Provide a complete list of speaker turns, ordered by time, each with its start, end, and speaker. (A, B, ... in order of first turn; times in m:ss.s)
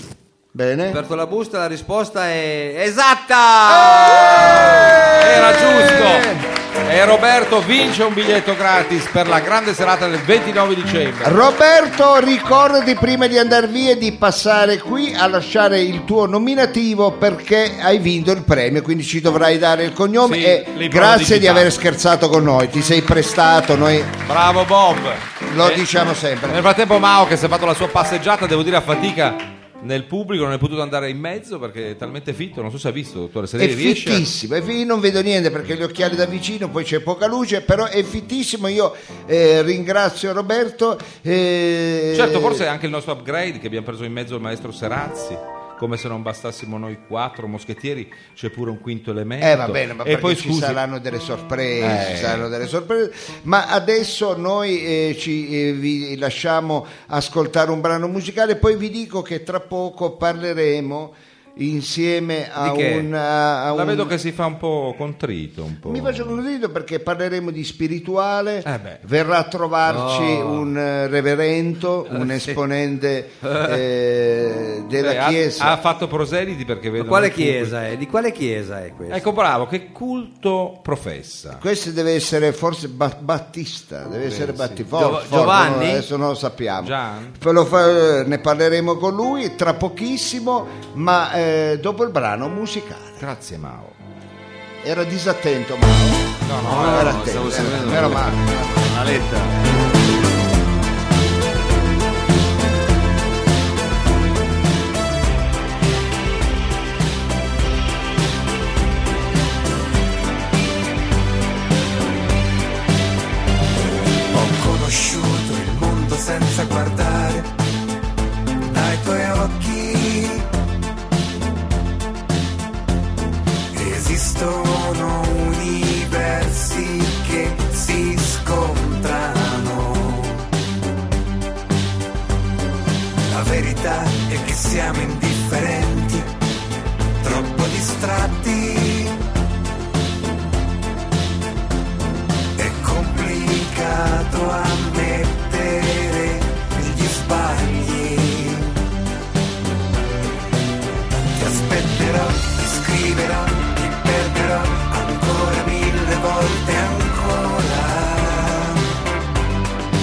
0:00.5-0:01.0 A
0:00.9-0:04.9 B
0:03.7-0:06.4 A
0:05.2-0:11.4 C
0:11.2-0:24.2 A
0:20.2-0:21.7 C
0:24.2-0:25.8 C
0:25.5-0:26.7 A
0:26.5-0:34.2 C
0:33.6-0:42.6 A
0:42.1-0:50.8 C
0:49.4-1:04.1 A
0:51.8-0:52.5 C
1:02.6-1:03.1 B
1:03.7-1:06.4 C
1:05.8-1:15.8 A
1:08.6-1:09.0 C
1:09.9-1:10.7 B
1:12.1-1:12.6 B
1:13.4-1:13.8 B
1:15.0-1:17.7 C
1:17.0-1:19.2 B
1:19.1-1:21.6 C
1:21.5-1:33.2 A
1:24.2-1:24.8 C
1:24.9-1:26.1 B
1:26.8-1:27.4 C
1:33.2-1:34.0 C
1:34.8-1:38.8 A
1:36.4-1:37.3 C
1:36.6-1:39.6 D
1:54.3-1:57.5 E
1:58.7-2:00.5 E
2:03.7-2:10.5 E
2:13.3-2:16.3 E
2:17.2-2:19.2 E
2:22.6-2:28.8 E
2:31.3-2:38.9 E